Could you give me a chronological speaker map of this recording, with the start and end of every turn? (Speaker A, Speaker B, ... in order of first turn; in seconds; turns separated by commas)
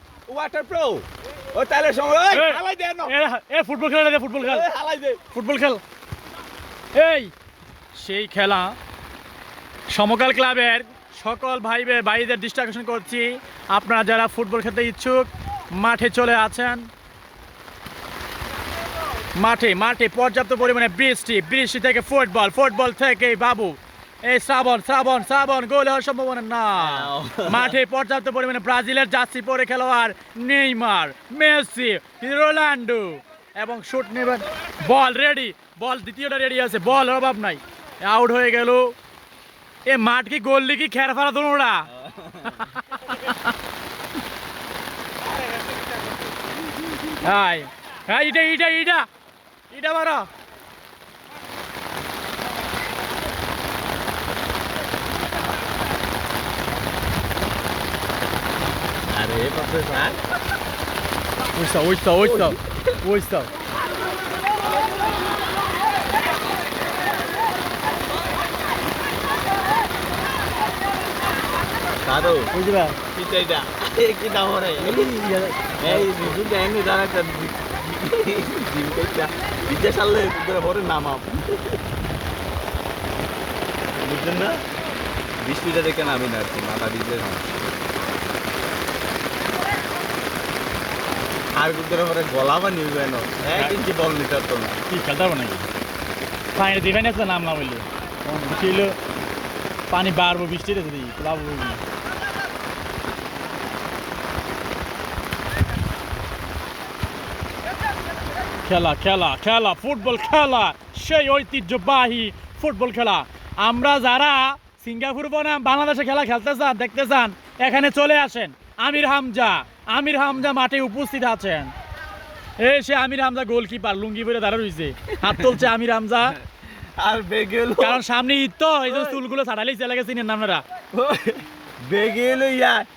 Speaker A: 0.3-3.1, Speaker B: 2.3-4.7, Speaker A: 4.4-5.2, Speaker B: 5.3-5.8, Speaker B: 6.9-7.3, Speaker B: 7.9-8.8, Speaker B: 9.9-16.9, Speaker B: 19.3-38.9, Speaker A: 26.8-27.7, Speaker B: 39.9-41.9, Speaker A: 41.9-42.7, Speaker B: 42.5-43.5, Speaker B: 47.2-49.1, Speaker B: 49.7-50.3, Speaker A: 59.1-60.2, Speaker B: 61.5-63.5, Speaker A: 62.2-62.6, Speaker A: 72.0-72.5, Speaker B: 72.5-73.0, Speaker A: 73.1-75.1, Speaker B: 74.8-76.3, Speaker A: 75.8-81.8, Speaker A: 84.0-84.6, Speaker A: 85.4-87.5, Speaker A: 91.6-94.8, Speaker B: 94.9-95.7, Speaker B: 96.5-99.0, Speaker B: 99.9-101.8, Speaker B: 108.6-121.7, Speaker B: 122.6-126.4, Speaker A: 126.8-128.0, Speaker B: 127.8-130.6, Speaker A: 128.9-129.2, Speaker A: 130.9-132.8